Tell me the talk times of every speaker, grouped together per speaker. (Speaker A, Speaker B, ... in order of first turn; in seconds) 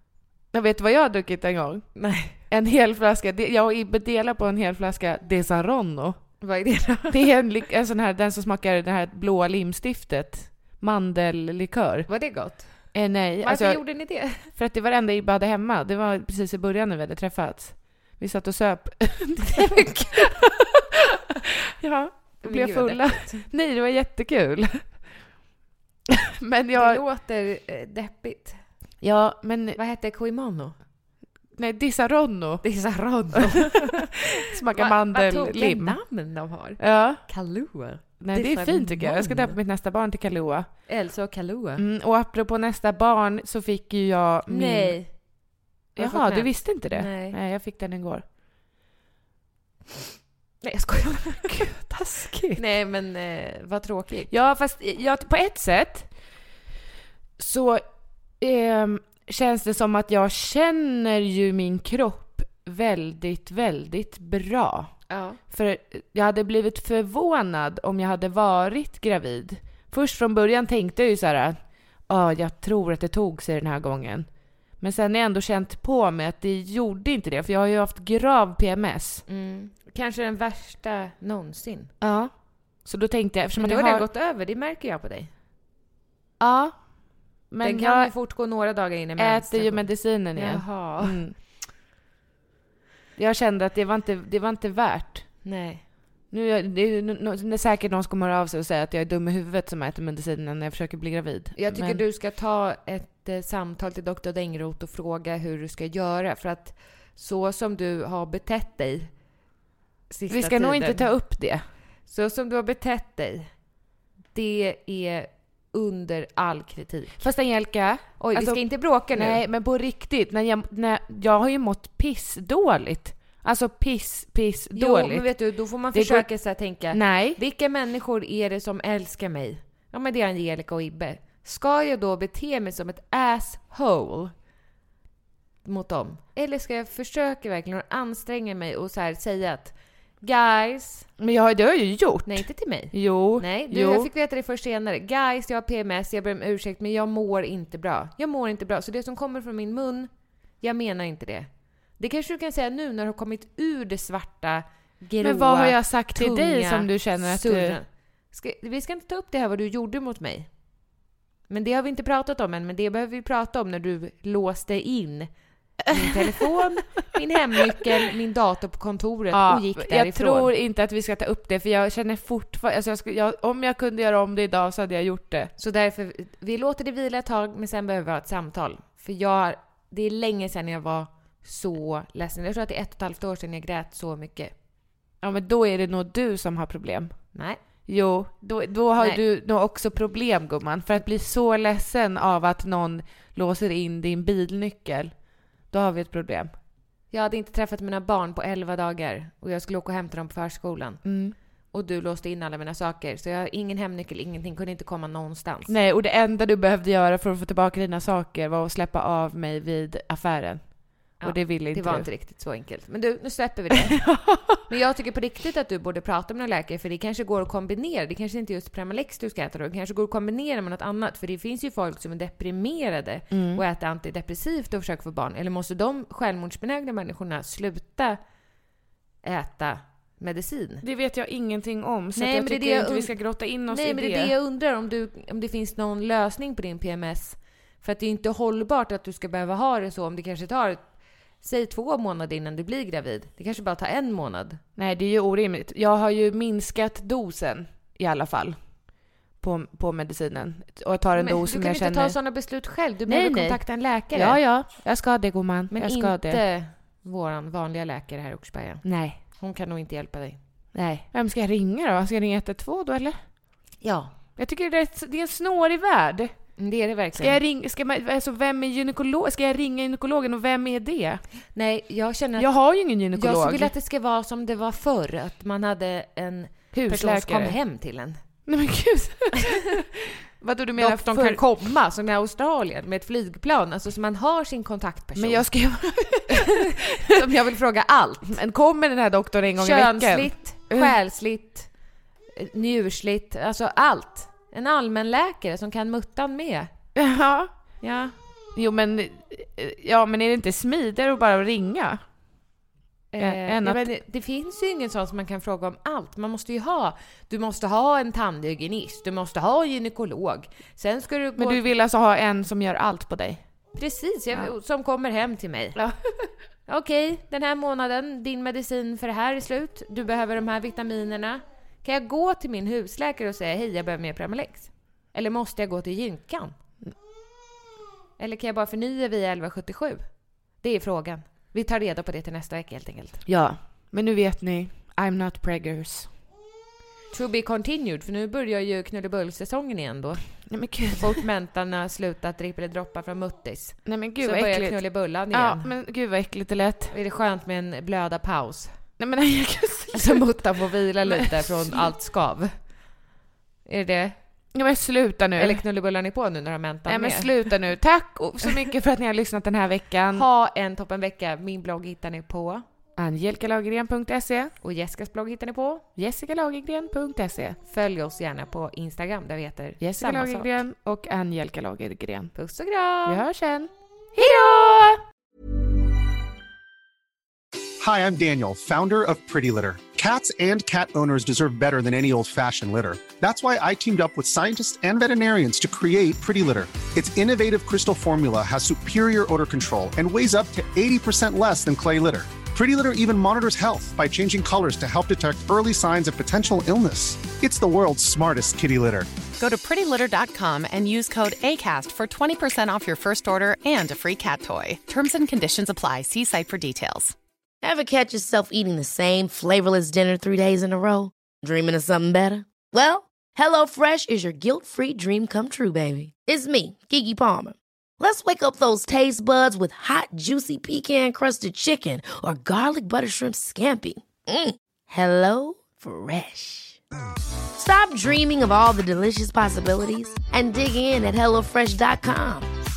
Speaker A: 0.5-1.9, 2.4-6.2, 7.1-12.1, 12.9-20.8, 21.8-25.1, 26.4-27.0, 29.0-29.8, 31.6-32.6, 33.3-33.8, 34.5-36.0, 36.8-37.2, 38.2-40.7, 41.8-45.0, 46.0-48.2, 51.5-52.6, 54.3-56.1, 57.4-57.8, 58.4-65.0, 65.5-71.6, 72.1-74.3, 74.8-79.2, 82.0-84.0, 86.4-86.9, 87.5-88.1, 89.2-91.4, 93.2-95.3, 96.3-102.0, 110.3-111.6, 117.2-125.3, 125.9-126.3, 126.9-127.4, 141.2-144.1, 155.2-157.8, 165.9-166.5, 169.3-175.5, 185.2-187.3, 187.8-195.1, 195.7-196.5, 201.0-201.3, 205.7-212.1, 213.9-214.4, 223.3-223.6, 230.8-234.3, 244.8-248.6, 249.4-252.2, 253.1-256.4, 258.8-259.2, 260.7-263.2, 264.4-266.3, 267.2-271.2, 272.4-273.7, 276.7-277.6, 278.5-281.4, 285.1-287.0, 288.3-290.9, 296.9-297.5, 298.6-302.0, 303.2-303.9, 311.4-313.4, 333.2-336.1, 340.5-341.2, 343.9-346.9, 349.0-350.2, 351.0-351.9, 354.5-355.6, 356.9-360.2, 363.0-364.5, 366.0-367.6, 369.8-372.3, 373.1-375.0
Speaker B: 1.9-2.4, 6.4-7.2, 12.1-14.5, 19.5-20.3, 22.4-23.4, 26.7-28.6, 29.8-30.7, 32.6-39.6, 40.9-41.8, 44.5-45.1, 46.0-47.4, 50.6-51.8, 52.5-54.3, 65.1-65.4, 79.3-81.9, 83.6-85.3, 87.6-91.2, 95.4-95.8, 101.5-109.1, 110.1-111.1, 112.1-113.5, 114.3-117.2, 118.2-119.4, 124.7-134.3, 135.6-141.1, 142.2-160.5, 161.5-165.3, 165.9-170.5, 175.6-184.5, 187.3-187.6, 197.1-201.0, 201.7-205.7, 211.2-228.2, 229.2-230.8, 232.2-233.2, 233.7-240.9, 241.4-244.6, 251.2-254.4, 255.7-260.4, 263.8-264.1, 266.6-267.4, 271.5-272.5, 273.1-278.2, 280.8-285.5, 286.4-288.4, 289.6-291.7, 292.3-296.7, 297.8-298.1, 303.1-311.7, 313.7-315.8, 316.7-326.6, 328.2-330.0, 330.6-333.2, 337.1-340.3, 340.9-345.7, 346.9-348.8, 349.9-352.5, 353.6-354.2, 355.4-357.5, 360.1-362.6, 364.6-365.8, 367.7-370.6, 372.3-373.2, 374.2-374.6
Speaker C: 377.8-399.1
Speaker D: 399.4-407.1
Speaker E: 407.6-426.8, 427.5-432.5